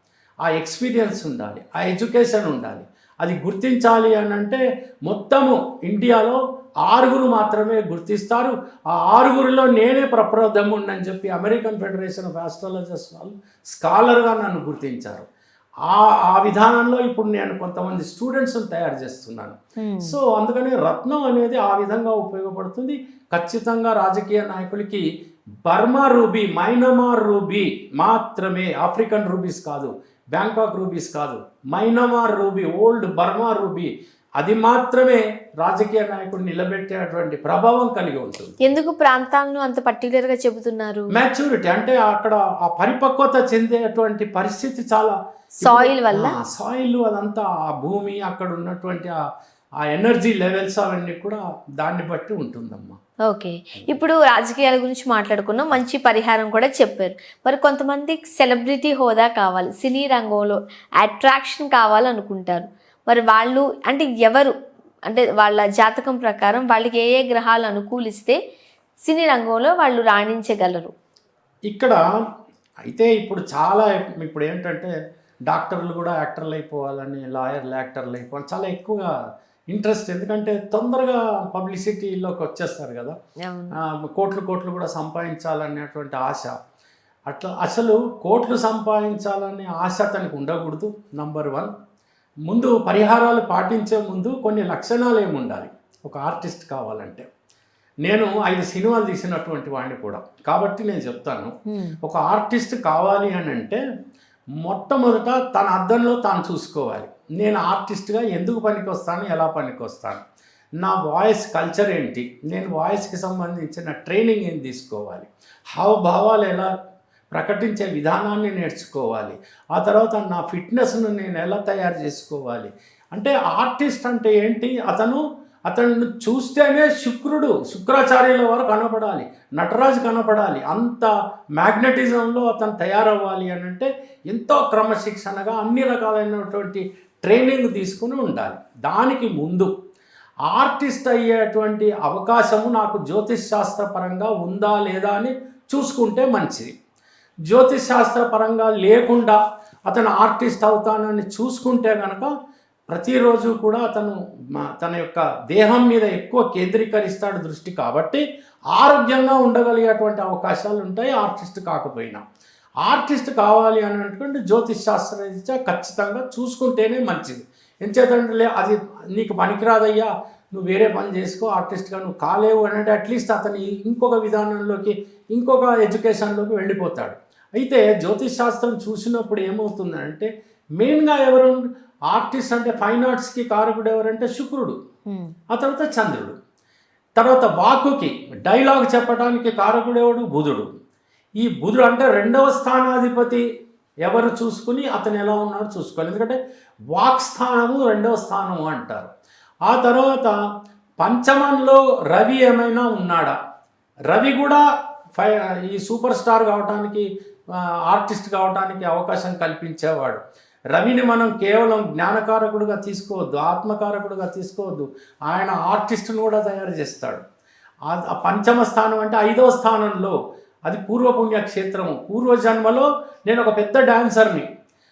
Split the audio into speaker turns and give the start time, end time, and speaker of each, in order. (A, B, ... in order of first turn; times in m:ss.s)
0:00.5-0:15.3 A
0:15.9-0:25.0 A
0:19.8-0:20.2 B
0:25.6-0:38.5 A
0:38.6-0:41.1 B
0:41.1-0:49.2 A
0:45.6-0:46.3 B
0:49.8-0:53.0 A
0:53.3-1:04.5 B
1:05.1-1:08.4 B
1:09.0-1:10.9 B
1:11.7-1:12.0 A
1:12.9-1:14.9 A
1:15.5-1:19.1 A
1:19.7-1:23.2 A
1:23.4-1:23.8 B
1:23.7-1:26.5 A
1:27.3-1:31.7 A
1:32.5-1:37.3 A
1:38.0-1:43.8 A
1:44.6-1:50.2 A
1:50.8-1:56.7 A
1:57.3-2:19.7 A
2:20.5-2:26.7 A
2:27.5-2:32.3 A
2:32.9-2:38.2 A
2:38.7-2:42.2 A
2:42.8-3:04.8 A
3:05.5-3:06.4 A
3:07.2-3:10.7 A
3:11.4-3:13.4 A
3:14.0-3:16.4 A
3:16.9-3:19.1 A
3:19.7-3:20.3 A
3:21.0-3:23.4 A
3:24.1-3:24.6 A
3:25.1-3:27.1 A
3:27.8-3:37.2 A
3:37.9-3:44.5 A